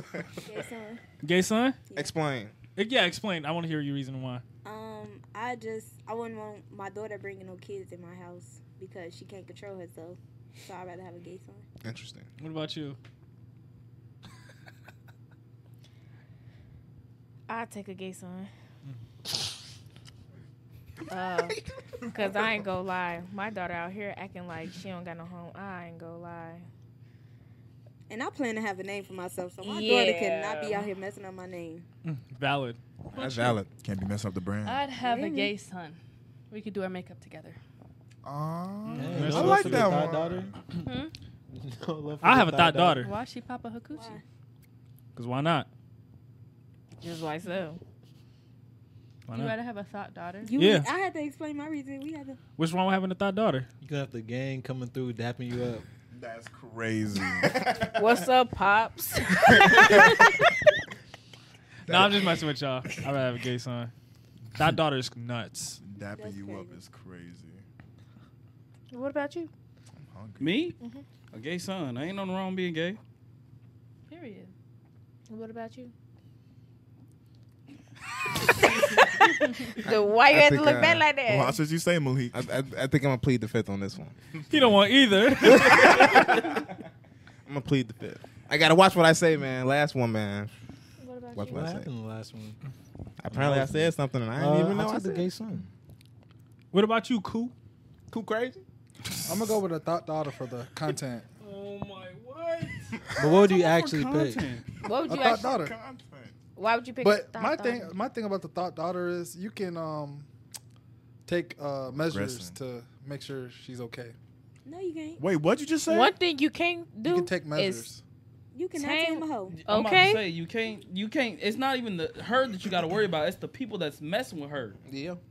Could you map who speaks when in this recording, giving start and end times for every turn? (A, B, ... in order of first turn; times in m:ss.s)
0:00.4-0:01.0 A
0:01.2-0:01.8 B
0:01.9-0:02.5 C
0:02.8-0:04.4 B
0:04.6-0:11.6 A
0:11.8-0:12.3 C
0:12.4-0:13.0 B
0:17.5-0:18.5 D
0:21.1-0:26.7 D
0:28.1-0:31.8 A
0:29.6-0:30.9 D
0:32.0-0:32.8 B
0:33.1-0:33.7 C
0:33.8-0:34.8 E
0:34.6-0:36.0 F
0:35.0-0:35.5 A
0:36.5-0:37.6 F
0:38.2-0:40.6 E
0:38.8-0:39.8 B
0:38.9-0:40.5 G
0:40.8-0:41.1 F
0:41.5-0:43.1 G
0:42.2-0:43.1 B
0:43.0-0:44.2 F
0:43.9-0:44.2 A
0:45.2-0:45.7 B
0:47.0-0:47.8 D
0:49.3-0:49.6 B
0:49.3-0:50.5 F
0:50.4-0:52.4 A
0:50.6-0:50.9 B
0:52.6-0:53.7 B
0:53.8-0:55.8 G
0:56.1-0:57.8 E
0:57.9-1:00.4 D
1:01.8-1:03.9 B
1:01.9-1:02.2 E
1:04.5-1:05.8 B
1:05.8-1:07.6 E
1:06.1-1:06.8 A
1:08.9-1:09.5 D
1:10.1-1:10.6 E
1:10.4-1:10.8 H
1:11.3-1:13.0 H
1:14.1-1:14.5 F
1:15.3-1:15.9 D
1:18.4-1:21.6 D
1:19.8-1:21.1 C
1:21.2-1:22.4 E
1:22.3-1:24.2 C
1:24.5-1:26.3 B
1:25.5-1:26.6 C
1:25.5-1:26.2 E
1:27.4-1:30.5 C
1:31.0-1:31.7 D
1:31.3-1:31.9 C
1:31.5-1:32.6 G
1:33.2-1:35.3 C
1:33.3-1:35.7 G
1:36.7-1:37.5 B
1:38.1-1:38.6 C
1:39.2-1:41.3 I
1:41.4-1:42.9 B
1:43.2-1:44.5 G
1:43.4-1:44.6 H
1:44.8-1:45.6 D
1:45.0-1:45.8 I
1:45.1-1:46.3 C
1:45.8-1:46.3 E
1:46.6-1:47.9 D
1:47.0-1:50.3 I
1:51.2-1:54.1 I
1:51.9-1:52.6 E
1:54.6-1:55.2 A
1:55.2-1:56.2 E
1:55.8-1:57.9 D
1:57.0-1:58.0 I
1:58.5-1:59.6 A
1:58.7-2:00.2 D
1:59.5-2:04.8 H
2:04.8-2:05.2 C